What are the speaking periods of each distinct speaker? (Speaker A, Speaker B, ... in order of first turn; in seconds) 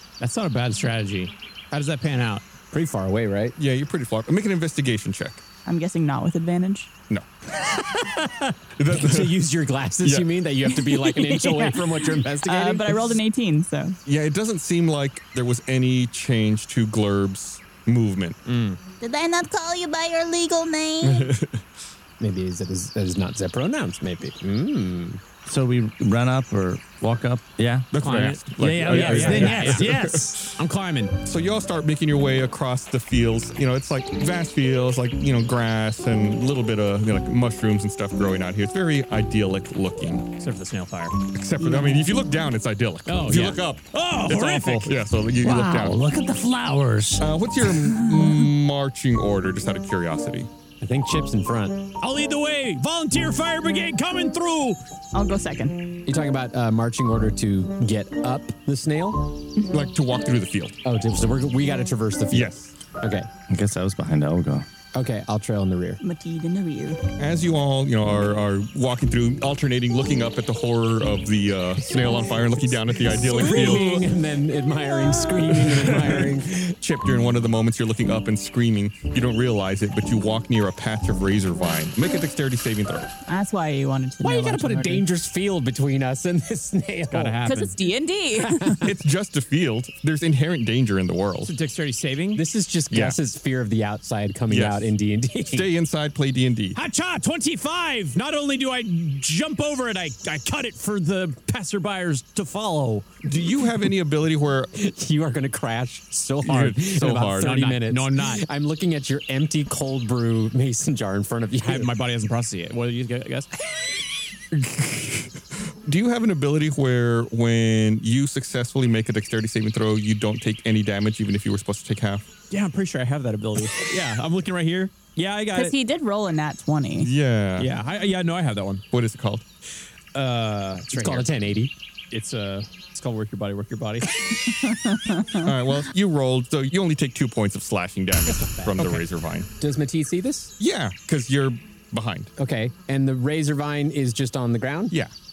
Speaker A: 0.2-2.5, 8.1-8.5, 18.4-18.8, 27.9-31.1, 40.4-41.2, 43.0-44.9, 52.0-54.8, 87.1-87.7, 91.4-92.4, 96.8-103.1, 107.4-108.4, 111.6-113.5, 122.5-125.7, 127.6-128.8, 130.1-131.3, 132.1-134.2
Speaker B: 2.7-3.5, 8.9-13.2, 22.2-25.2, 29.3-29.7, 50.8-51.9, 56.0-59.3, 60.8-63.3, 64.9-66.0, 71.9-76.8, 84.2-87.4, 88.4-88.9, 92.3-95.7, 104.8-111.9, 130.9-131.7, 138.2-139.0, 139.6-140.5, 142.4-144.9
Speaker C: 3.6-5.4, 8.8-9.4, 10.0-10.3, 14.1-18.4, 21.0-21.6, 27.9-30.6, 31.2-40.3, 41.3-46.0, 47.2-50.5, 59.7-60.8, 62.3-62.7, 67.2-74.0, 75.5-83.1, 88.8-91.5, 92.9-93.2, 94.5-94.9, 95.5-96.8, 103.2-104.7, 106.4-107.6, 114.5-122.2, 127.0-127.7, 128.9-129.4, 135.4-139.5, 140.6-142.3
Speaker D: 5.7-6.9, 10.7-14.0, 41.6-42.1, 55.1-55.9, 66.0-67.0, 73.4-73.8, 83.3-85.0, 87.4-88.8, 125.5-127.1, 134.8-135.4
Speaker E: 19.0-21.3
Speaker F: 25.4-27.9, 28.6-30.2, 45.4-47.3, 63.5-64.7